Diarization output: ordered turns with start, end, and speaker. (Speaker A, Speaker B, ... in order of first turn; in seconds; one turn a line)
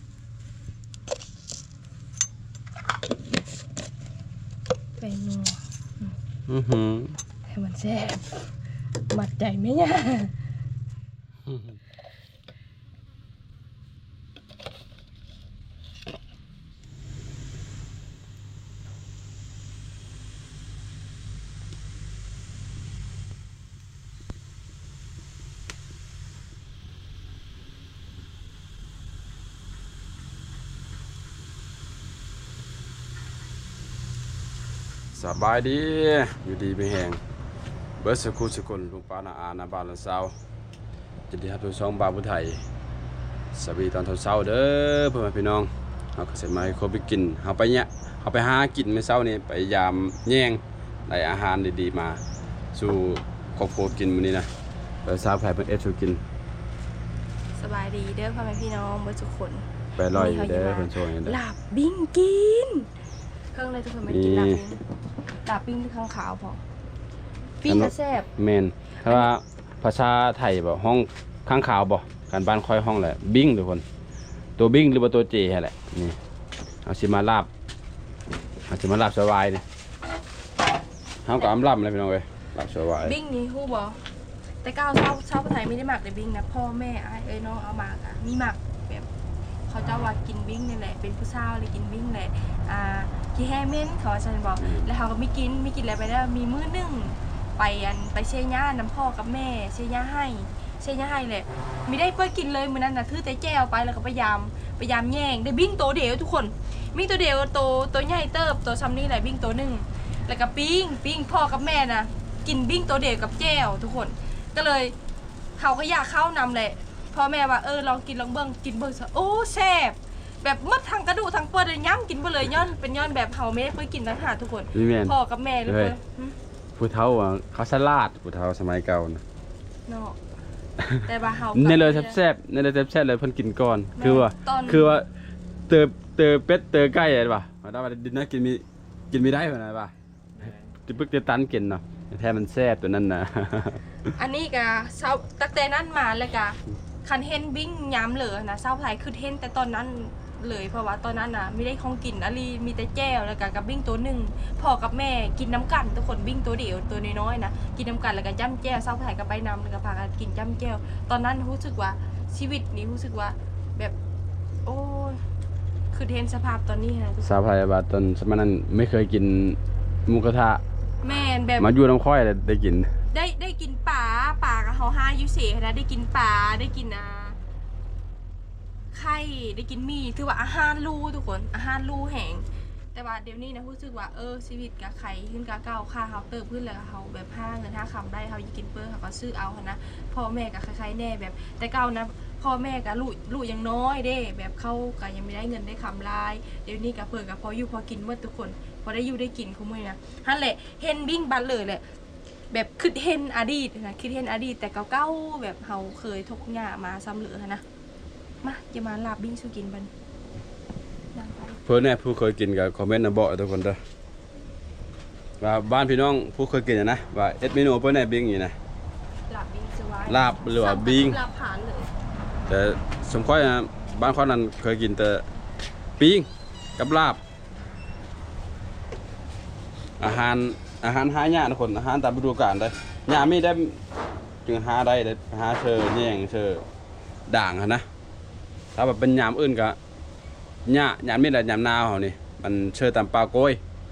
Speaker A: 5.0-6.2
Speaker B: 6.5-7.2
Speaker A: 7.5-8.4
Speaker A: 9.1-10.3
Speaker B: 11.5-11.8
Speaker B: 35.1-37.2
Speaker B: 38.0-40.4
Speaker B: 41.3-42.6
Speaker B: 43.5-52.2
Speaker B: 52.7-54.5
Speaker B: 55.0-56.2
Speaker A: 57.6-62.9
Speaker B: 60.0-61.4
Speaker A: 63.5-64.8
Speaker B: 64.1-64.6
Speaker A: 65.5-66.6
Speaker A: 67.6-68.3
Speaker B: 67.7-73.8
Speaker A: 69.0-69.3
Speaker B: 74.6-76.2
Speaker B: 76.8-77.5
Speaker B: 78.7-79.6
Speaker B: 81.2-83.2
Speaker A: 83.0-84.0
Speaker A: 84.6-89.1
Speaker A: 89.7-115.0
Speaker B: 94.6-94.9
Speaker A: 115.6-126.4
Speaker B: 124.7-126.0
Speaker B: 126.8-129.2
Speaker A: 129.9-130.2
Speaker B: 130.8-135.1
Speaker A: 131.0-132.2
Speaker A: 134.0-134.9
Speaker B: 135.7-139.9
Speaker A: 140.4-140.8
Speaker B: 140.9-144.0
Speaker A: 144.2-164.0
Speaker A: 164.7-165.2
Speaker A: 165.9-167.4
Speaker B: 167.2-170.6
Speaker A: 171.0-171.7
Speaker B: 171.6-172.9
Speaker A: 173.1-177.4
Speaker A: 178.9-201.8
Speaker A: 202.5-207.6
Speaker A: 208.4-209.9
Speaker A: 211.1-211.6
Speaker B: 211.7-213.8
Speaker B: 215.4-218.6
Speaker A: 219.3-221.9
Speaker B: 220.1-221.2
Speaker B: 222.5-225.2
Speaker B: 226.0-227.2
Speaker B: 230.0-233.8
Speaker B: 234.4-236.7
Speaker B: 237.3-237.8
Speaker B: 238.8-239.8
Speaker B: 240.7-243.6